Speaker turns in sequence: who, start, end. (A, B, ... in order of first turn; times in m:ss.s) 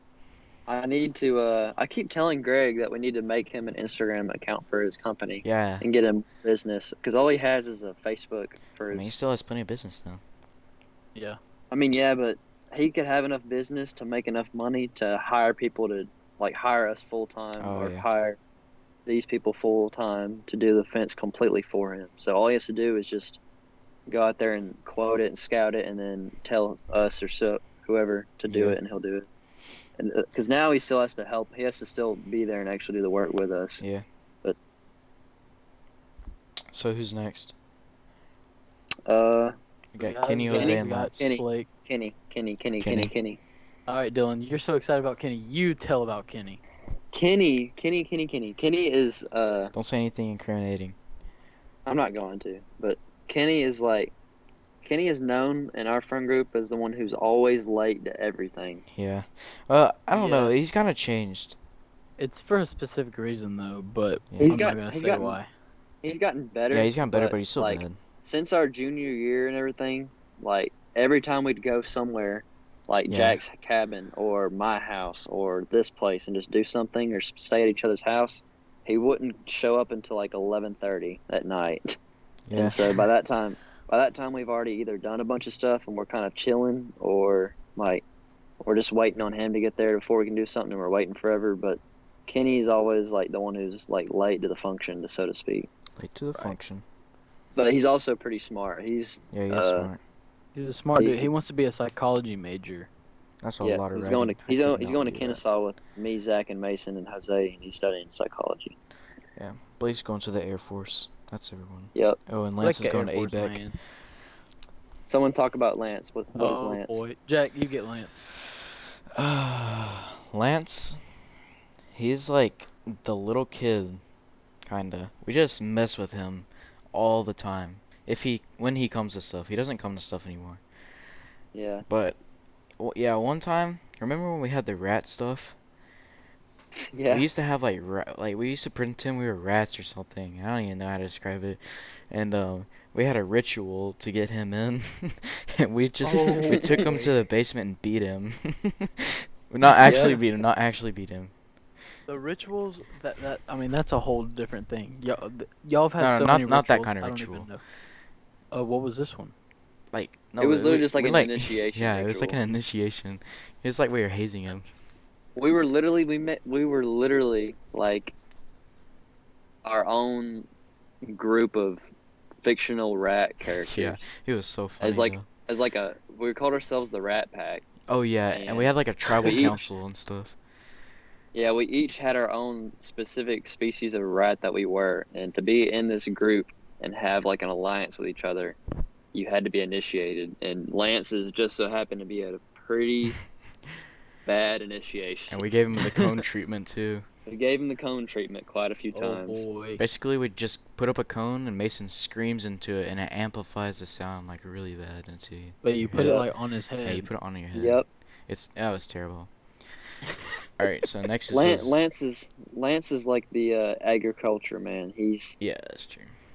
0:00.7-0:09.1 A
0:05.4-0:05.8 B
0:08.9-0:10.2 B
0:11.7-0:18.4 A
0:17.6-0:18.0 B
0:19.0-0:23.4 A
0:24.1-0:29.2 A
0:28.5-0:28.8 B
0:30.0-0:33.8 A
0:33.8-0:34.0 B
0:36.7-0:37.5 B
0:39.0-0:39.5 A
0:39.9-0:41.2 B
0:40.0-0:41.7 C
0:40.5-0:43.4 A
0:42.8-0:43.1 B
0:43.9-0:46.6 C
0:47.1-0:49.7 A
0:49.7-0:51.0 B
0:51.8-0:54.1 A
0:54.8-0:58.8 A
0:58.9-1:01.6 B
1:00.1-1:00.6 A
1:02.2-1:05.5 C
1:04.3-1:04.6 B
1:04.4-1:05.4 A
1:06.0-1:22.0 A
1:06.7-1:08.0 B
1:13.1-1:13.4 B
1:22.5-1:23.1 B
1:22.5-1:28.0 A
1:28.6-1:35.7 A
1:36.0-1:36.8 B
1:37.6-1:39.9 A
1:39.3-1:40.0 B
1:40.5-1:42.9 C
1:41.0-1:41.3 A
1:43.4-1:45.4 B
1:43.6-1:48.7 A
1:49.4-1:53.6 B
1:52.6-1:53.8 C
1:55.1-1:57.0 A
1:56.3-1:58.3 C
1:58.4-2:01.0 B
2:01.9-2:04.0 B
2:04.7-2:10.6 B
2:11.5-2:11.8 A
2:11.9-2:12.2 B
2:12.8-2:15.6 B
2:16.9-2:17.2 A
2:17.1-2:31.3 B
2:26.0-2:27.1 C
2:26.2-2:27.0 A
2:29.8-2:30.2 A
2:29.8-2:30.1 C
2:32.1-2:37.6 C
2:36.0-2:37.5 B
2:38.5-2:39.3 C
2:39.9-2:44.7 B
2:40.4-2:42.4 A
2:45.4-2:48.1 A
2:49.6-2:50.5 A
2:51.0-2:51.9 A
2:52.4-2:54.1 A
2:53.6-2:55.3 B
2:54.8-2:57.7 A
2:57.9-3:00.4 B
2:58.3-2:59.7 A
2:59.2-2:59.6 C
3:01.3-3:08.6 A
3:09.1-3:13.2 A
3:14.2-3:15.4 A
3:15.3-3:17.0 B
3:15.8-3:16.1 C
3:17.3-3:19.4 A
3:18.9-3:19.8 C
3:19.8-3:26.2 B
3:25.6-3:27.1 C
3:26.0-3:26.3 A
3:26.8-3:29.3 B
3:27.5-3:27.8 A
3:30.6-3:31.8 B
3:31.3-3:35.4 A
3:35.4-3:36.1 B